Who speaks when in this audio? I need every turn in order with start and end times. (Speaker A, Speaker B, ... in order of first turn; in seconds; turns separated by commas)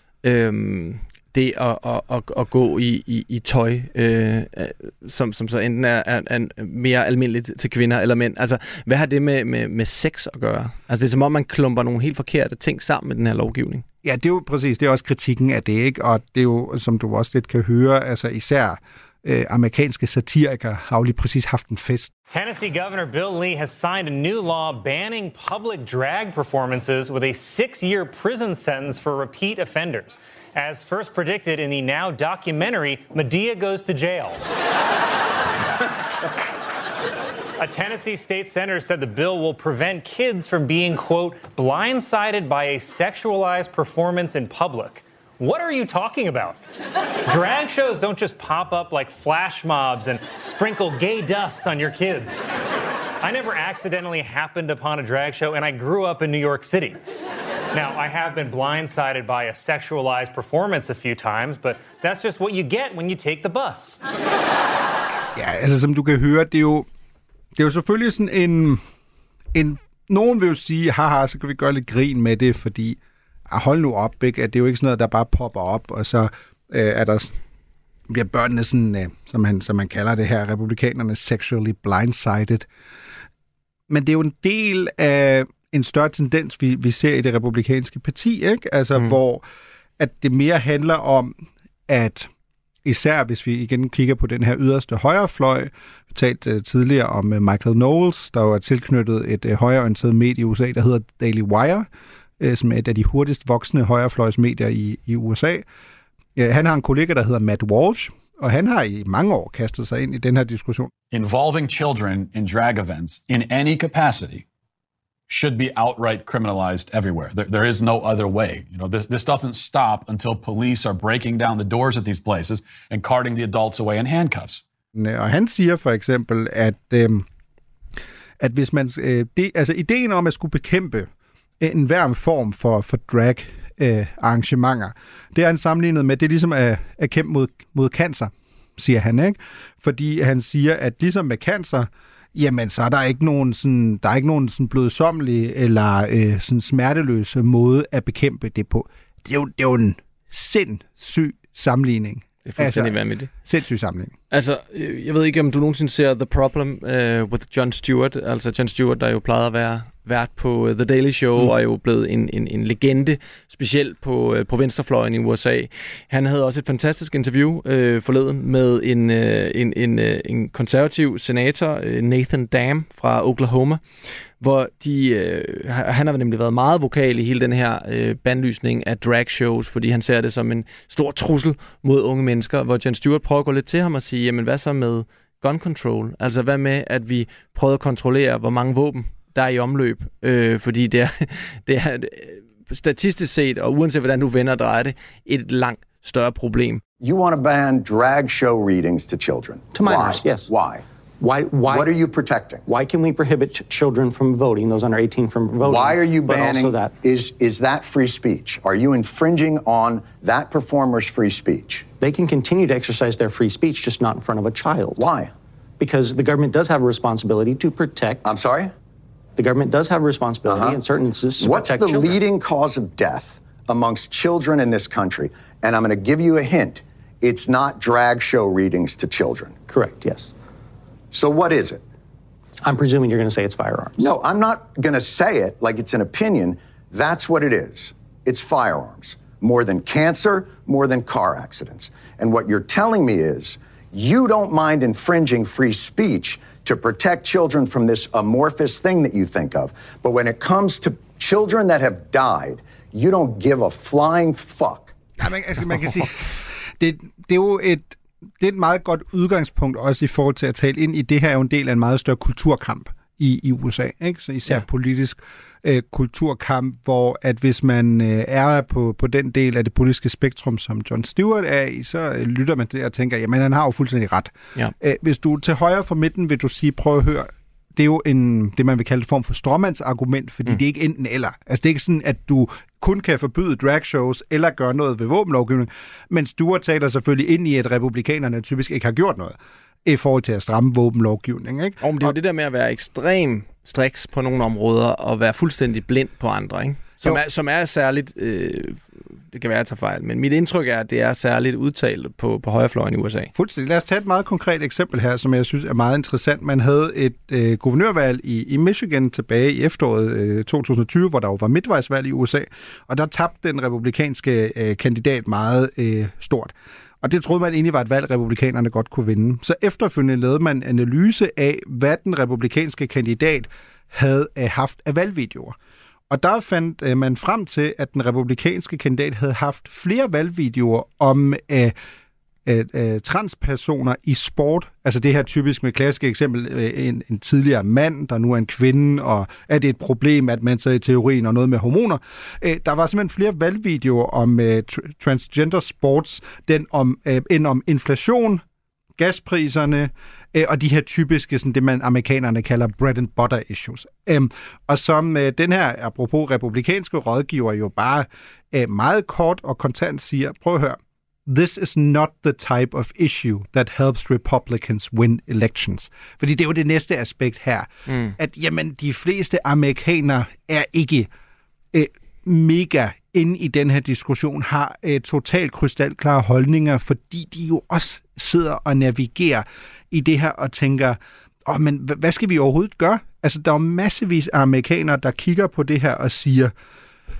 Speaker A: 0.2-13.8, Speaker B: 14.0-22.1, Speaker C: 22.3-34.4, Speaker C: 37.6-46.6, Speaker C: 47.2-52.4, Speaker C: 53.2-57.0, Speaker C: 57.7-64.0, Speaker B: 65.3-66.9, Speaker B: 67.5-68.8, Speaker B: 69.5-77.3, Speaker B: 78.1-82.7, Speaker B: 83.9-89.4, Speaker B: 90.0-92.3, Speaker B: 92.8-101.9, Speaker B: 102.4-105.6, Speaker B: 106.3-110.9, Speaker D: 111.1-114.4, Speaker D: 115.3-124.6, Speaker B: 124.9-127.3, Speaker B: 128.4-154.1, Speaker A: 152.4-153.3, Speaker A: 154.3-173.8, Speaker A: 174.4-196.8, Speaker E: 197.0-200.8, Speaker F: 199.7-200.5, Speaker F: 201.2-202.0, Speaker E: 201.7-202.6, Speaker F: 202.7-207.0, Speaker E: 205.6-211.9, Speaker F: 212.0-215.1, Speaker E: 215.0-215.3, Speaker F: 215.8-218.3, Speaker E: 218.2-218.7, Speaker F: 219.4-222.2, Speaker E: 220.5-220.8, Speaker E: 221.4-229.6, Speaker F: 229.7-230.3, Speaker E: 231.1-231.8, Speaker F: 232.6-234.1, Speaker E: 234.0-255.0, Speaker B: 255.2-292.1, Speaker A: 291.8-303.3, Speaker B: 303.3-325.6, Speaker B: 326.1-331.7, Speaker B: 332.4-348.4, Speaker B: 349.0-371.1, Speaker A: 367.9-368.1, Speaker B: 371.7-386.5